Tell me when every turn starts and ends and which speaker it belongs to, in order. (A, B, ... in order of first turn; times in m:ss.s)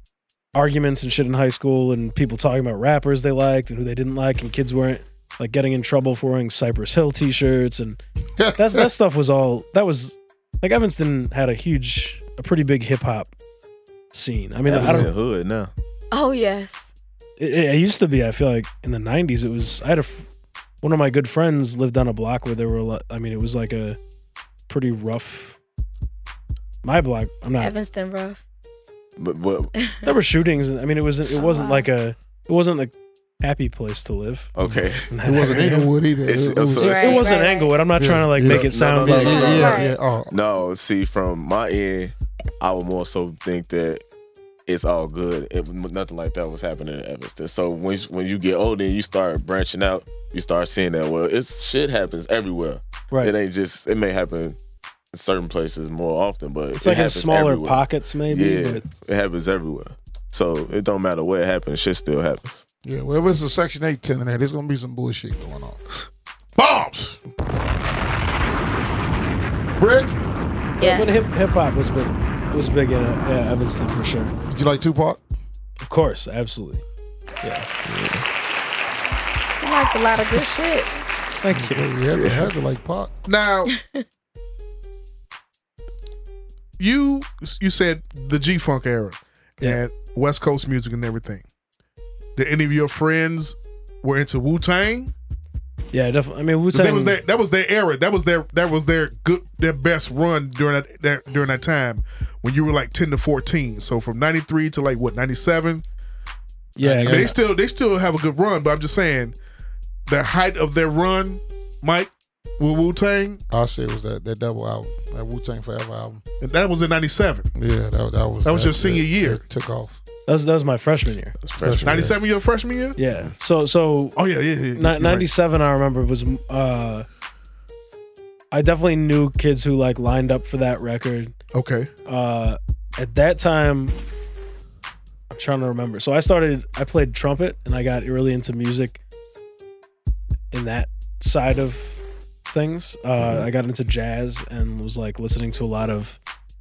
0:00.5-0:08.0 A
0:08.4-0:08.9 B
0:08.6-0:13.3 A
0:14.1-0:15.1 A
0:14.6-0:15.7 C
0:14.7-0:15.1 B
0:16.1-0:16.9 D
0:17.4-0:20.3 A
0:20.8-0:24.0 A
0:24.7-0:25.6 A
0:26.8-0:27.7 A
0:27.6-0:28.4 D
0:29.2-0:29.7 C
0:29.8-0:30.1 D
0:30.0-0:34.5 A
0:31.3-0:31.9 D
0:34.6-0:35.1 C
0:34.6-0:37.2 B
0:35.1-0:35.9 A
0:36.2-0:37.4 C
0:36.8-0:37.8 D
0:36.8-0:39.7 A
0:38.0-0:40.3 B
0:38.4-0:44.0 C
0:39.1-0:39.9 D
0:44.7-0:54.6 C
0:55.1-1:02.6 C
0:56.8-0:58.8 A
1:02.8-1:05.8 B
1:06.6-1:07.2 E
1:09.8-1:10.1 B
1:10.8-1:11.3 D
1:10.8-1:14.3 A
1:14.5-1:15.2 B
1:15.8-1:16.8 A
1:17.4-1:17.7 A
1:17.8-1:18.2 C
1:19.6-1:21.0 D
1:21.4-1:21.9 A
1:21.5-1:23.1 B
1:22.1-1:22.5 C
1:23.2-1:23.7 E
1:23.8-1:24.0 D
1:26.8-1:31.4 E
1:32.4-1:35.1 E
1:35.9-1:37.2 A
1:36.7-1:45.8 E
1:46.8-1:47.4 A
1:46.8-1:47.3 B
1:47.0-1:49.4 E
1:50.0-1:53.4 E
1:53.5-1:56.2 B
1:56.4-1:57.5 E
1:57.5-2:00.0 B
1:58.4-1:59.4 E
2:00.3-2:01.4 A
2:01.4-2:02.1 C
2:01.6-2:02.2 B
2:01.8-2:03.0 E
2:03.0-2:04.2 A
2:04.2-2:05.3 E
2:04.7-2:07.0 A
2:08.5-2:11.4 A
2:11.5-2:11.9 E
2:12.1-2:14.0 A
2:15.3-2:19.0 A
2:20.5-2:26.2 A
2:23.2-2:23.5 C